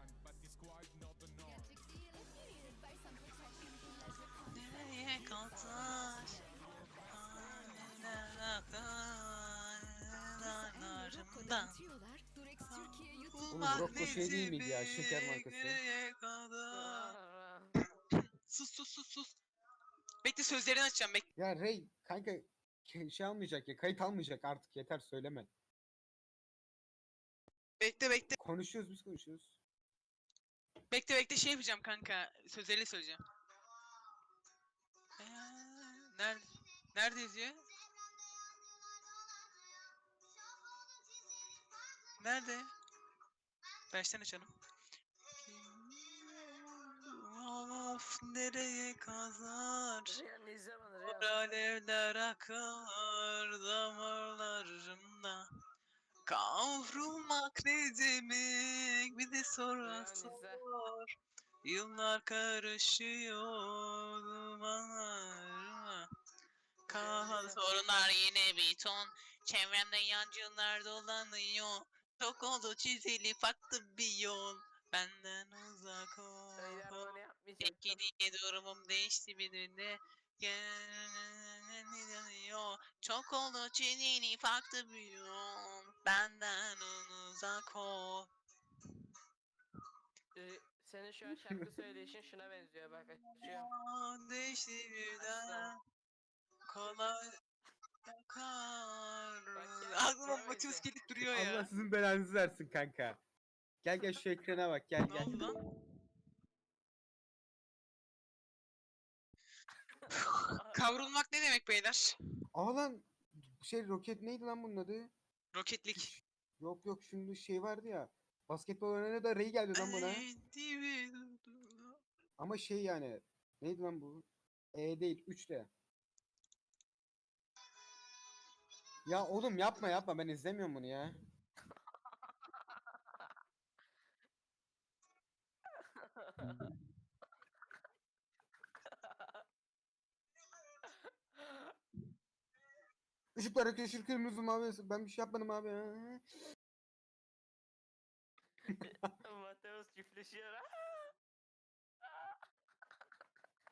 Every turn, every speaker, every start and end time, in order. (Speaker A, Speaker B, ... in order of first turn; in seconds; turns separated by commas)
Speaker A: 4.5-6.4, Speaker A: 7.1-11.8, Speaker A: 12.7-17.1, Speaker B: 13.5-15.8, Speaker C: 16.7-17.8, Speaker A: 18.5-19.3, Speaker A: 20.2-21.2, Speaker B: 21.4-25.5, Speaker A: 27.8-28.4, Speaker B: 28.4-29.5, Speaker A: 30.9-33.2, Speaker A: 35.2-37.6, Speaker A: 42.2-42.7, Speaker A: 43.9-44.5, Speaker A: 45.4-50.2, Speaker C: 50.1-51.6, Speaker A: 51.0-55.4, Speaker A: 56.2-61.0, Speaker C: 59.8-60.6, Speaker A: 61.6-66.1, Speaker A: 66.8-88.3, Speaker C: 66.9-67.6, Speaker C: 76.6-78.0, Speaker C: 90.3-93.7, Speaker A: 93.4-95.8, Speaker C: 95.2-95.7, Speaker A: 96.7-97.2, Speaker A: 98.1-101.7, Speaker C: 99.5-100.8, Speaker B: 101.2-103.2, Speaker B: 103.8-105.5, Speaker A: 105.0-105.6, Speaker C: 110.0-111.1, Speaker A: 110.1-112.1, Speaker B: 112.5-113.1, Speaker B: 113.6-115.1, Speaker A: 115.5-116.1, Speaker B: 115.9-120.3, Speaker A: 119.7-122.0, Speaker B: 122.4-125.7, Speaker B: 129.1-131.2, Speaker C: 132.5-133.3, Speaker C: 135.7-136.7, Speaker C: 138.9-139.4, Speaker C: 140.8-141.8, Speaker B: 143.3-146.2, Speaker C: 148.7-151.1, Speaker B: 148.7-149.0, Speaker C: 152.0-152.3